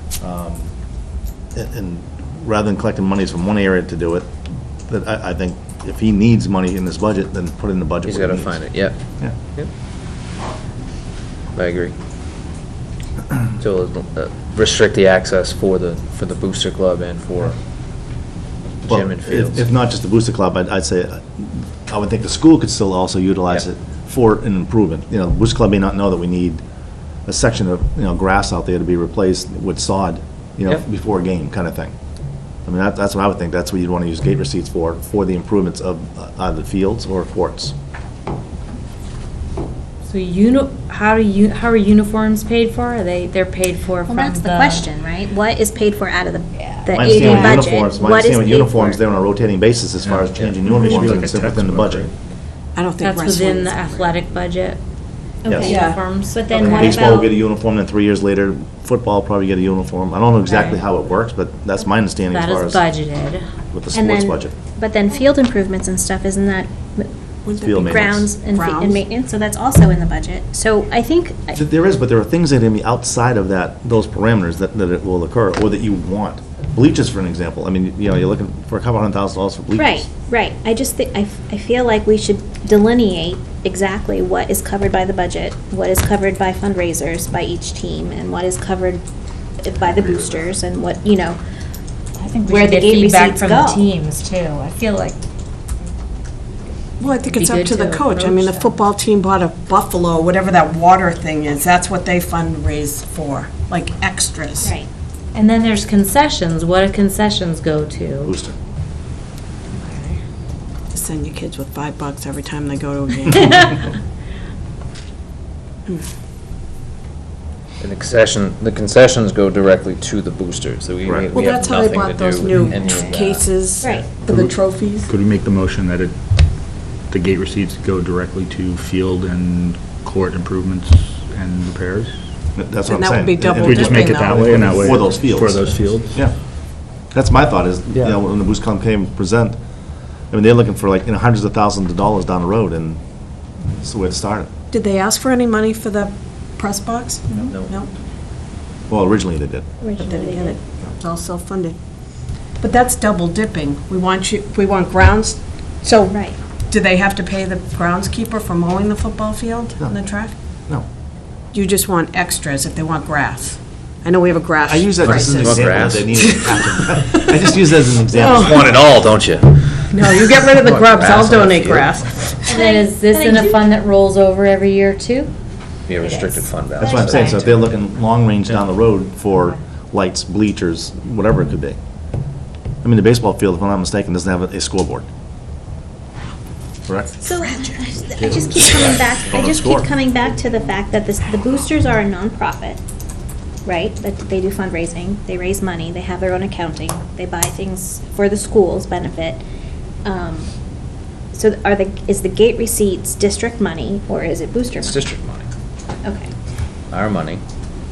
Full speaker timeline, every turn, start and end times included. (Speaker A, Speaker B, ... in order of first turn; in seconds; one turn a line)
Speaker A: 0.2-0.7
Speaker A: 1.5-4.3
Speaker A: 4.9-8.6
Speaker B: 8.0-9.0
Speaker B: 11.5-11.9
Speaker B: 13.6-17.5
Speaker B: 18.8-19.7
Speaker A: 18.9-26.6
Speaker A: 27.3-31.9
Speaker A: 32.6-37.7
Speaker C: 40.0-44.9
Speaker D: 44.1-49.0
Speaker C: 46.9-47.7
Speaker A: 46.9-52.1
Speaker E: 50.1-52.1
Speaker B: 50.3-50.6
Speaker F: 52.7-54.1
Speaker C: 53.0-54.8
Speaker D: 55.4-57.3
Speaker A: 55.5-55.7
Speaker C: 55.6-57.2
Speaker F: 55.6-56.0
Speaker A: 56.5-62.8
Speaker C: 62.3-63.5
Speaker A: 63.7-64.5
Speaker D: 63.9-67.1
Speaker F: 67.4-69.0
Speaker A: 67.6-68.3
Speaker D: 67.8-71.6
Speaker A: 71.5-80.0
Speaker D: 79.8-89.0
Speaker D: 89.6-91.4
Speaker A: 89.8-90.5
Speaker C: 92.2-95.2
Speaker D: 92.4-93.9
Speaker F: 97.0-104.7
Speaker C: 97.2-98.7
Speaker D: 104.6-104.9
Speaker C: 105.3-108.3
Speaker A: 108.2-108.5
Speaker F: 109.8-110.2
Speaker F: 110.9-113.8
Speaker B: 117.8-123.4
Speaker F: 121.3-125.1
Speaker D: 122.9-123.1
Speaker D: 123.8-124.1
Speaker E: 124.2-124.5
Speaker E: 125.0-126.2
Speaker E: 127.0-132.1
Speaker A: 132.6-136.3
Speaker F: 132.8-135.0
Speaker E: 133.6-136.2
Speaker A: 137.1-139.6
Speaker A: 140.3-143.0
Speaker A: 143.7-144.5
Speaker F: 144.7-147.9
Speaker A: 148.9-149.7
Speaker D: 149.8-150.6
Speaker F: 150.0-151.8
Speaker F: 152.6-160.3
Speaker D: 156.1-156.4
Speaker F: 161.5-165.6
Speaker A: 164.7-168.8
Speaker B: 165.0-166.2
Speaker F: 166.2-166.6
Speaker F: 168.1-168.7
Speaker B: 168.4-171.9
Speaker F: 169.9-172.6
Speaker C: 172.5-175.3
Speaker D: 172.5-173.6
Speaker B: 175.9-177.5
Speaker C: 176.0-176.9
Speaker D: 176.8-177.5
Speaker A: 176.8-181.8
Speaker A: 182.8-185.1
Speaker A: 186.8-187.2
Speaker D: 187.2-192.8
Speaker F: 187.4-188.9
Speaker A: 188.2-189.9
Speaker D: 193.6-199.4
Speaker D: 200.0-200.5
Speaker D: 201.3-205.1
Speaker B: 204.8-205.5
Speaker D: 206.0-206.3
Speaker B: 206.9-207.4